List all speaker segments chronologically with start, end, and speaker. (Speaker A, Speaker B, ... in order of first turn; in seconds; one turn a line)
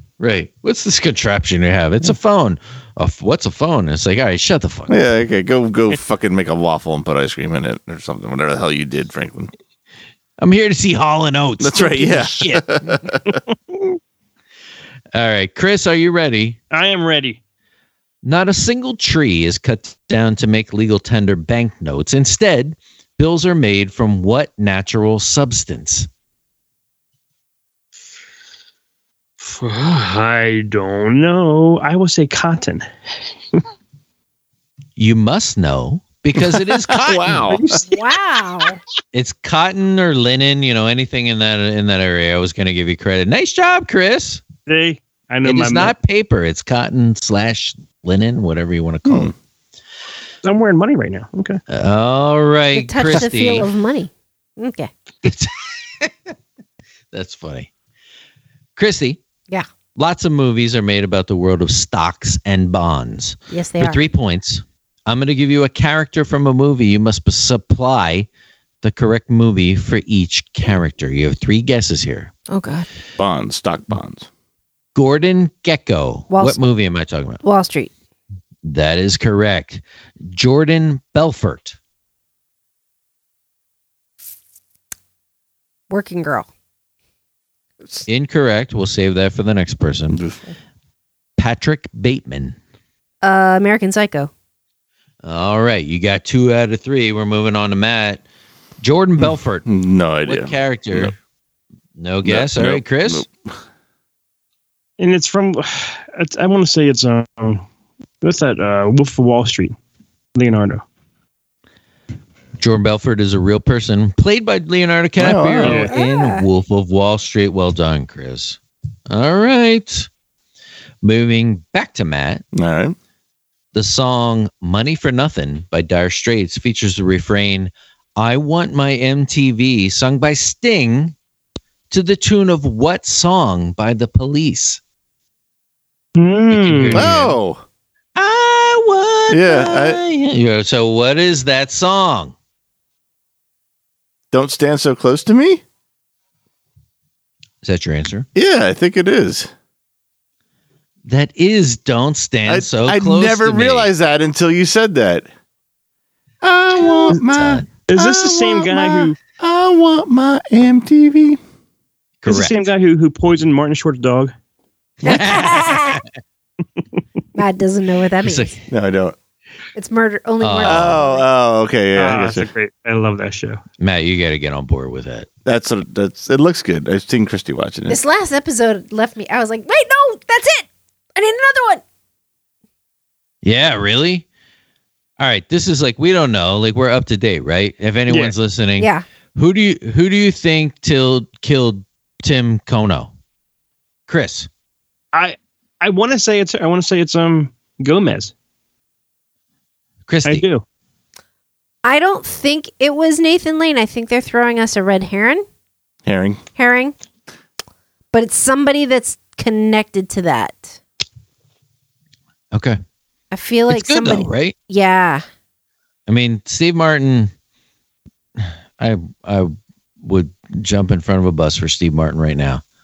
Speaker A: 0.2-5.0
Speaker B: 4.9-9.5
Speaker A: 10.4-13.0
Speaker B: 11.6-13.4
Speaker A: 15.1-16.6
Speaker C: 16.7-17.4
Speaker A: 18.2-26.1
Speaker C: 29.4-32.9
Speaker A: 35.0-37.5
Speaker B: 36.4-37.8
Speaker C: 37.5-38.0
Speaker D: 37.9-38.8
Speaker A: 39.1-44.4
Speaker C: 44.7-45.9
Speaker A: 45.4-49.3
Speaker B: 49.1-49.3
Speaker C: 50.4-51.6
Speaker A: 51.7-53.7
Speaker D: 52.7-54.9
Speaker A: 55.2-56.3
Speaker A: 57.1-57.7
Speaker A: 58.8-59.2
Speaker A: 60.0-68.3
Speaker D: 63.5-64.0
Speaker A: 68.8-72.3
Speaker D: 72.5-72.9
Speaker B: 73.2-74.3
Speaker A: 75.0-77.4
Speaker D: 76.3-76.6
Speaker D: 77.4-77.9
Speaker A: 78.6-81.8
Speaker D: 85.9-86.5
Speaker A: 88.1-90.2
Speaker B: 90.1-90.4
Speaker A: 91.4-92.6
Speaker D: 93.2-94.3
Speaker A: 95.2-98.2
Speaker A: 98.8-99.7
Speaker B: 99.2-101.1
Speaker A: 100.2-101.1
Speaker A: 102.0-103.3
Speaker B: 102.2-103.5
Speaker C: 105.0-107.7
Speaker C: 108.2-109.8
Speaker C: 110.4-110.8
Speaker A: 112.6-120.1
Speaker B: 115.2-115.8
Speaker C: 115.6-115.9
Speaker D: 115.8-116.5
Speaker A: 121.0-122.4
Speaker B: 122.5-123.0
Speaker A: 123.7-131.2
Speaker A: 131.9-134.8
Speaker C: 136.2-137.1
Speaker A: 136.5-137.4
Speaker B: 136.9-137.6
Speaker A: 138.2-142.3
Speaker B: 139.3-140.0
Speaker B: 144.3-145.6
Speaker A: 147.6-148.3
Speaker B: 148.3-149.5
Speaker A: 151.1-153.9
Speaker B: 152.5-155.3
Speaker B: 156.4-161.4
Speaker A: 157.1-157.7
Speaker C: 157.9-159.2
Speaker A: 162.2-162.6
Speaker C: 162.3-164.3
Speaker A: 165.1-166.0
Speaker D: 165.1-166.0
Speaker D: 167.3-168.5
Speaker A: 168.2-168.6
Speaker B: 168.7-169.2
Speaker D: 169.8-171.3
Speaker A: 170.4-171.0
Speaker B: 170.6-172.5
Speaker C: 172.0-173.6
Speaker A: 173.8-175.3
Speaker B: 175.4-178.0
Speaker D: 177.9-181.8
Speaker A: 183.4-184.3
Speaker A: 185.2-193.1
Speaker C: 188.1-188.3
Speaker D: 188.8-189.1
Speaker A: 194.1-194.5
Speaker C: 195.1-198.3
Speaker A: 200.1-200.4
Speaker C: 200.2-200.6
Speaker D: 201.8-205.4
Speaker B: 206.1-206.4
Speaker D: 206.6-206.9
Speaker D: 208.1-210.8
Speaker A: 212.5-212.8
Speaker D: 213.3-215.2
Speaker A: 213.7-214.6
Speaker A: 216.1-217.3
Speaker A: 218.4-222.6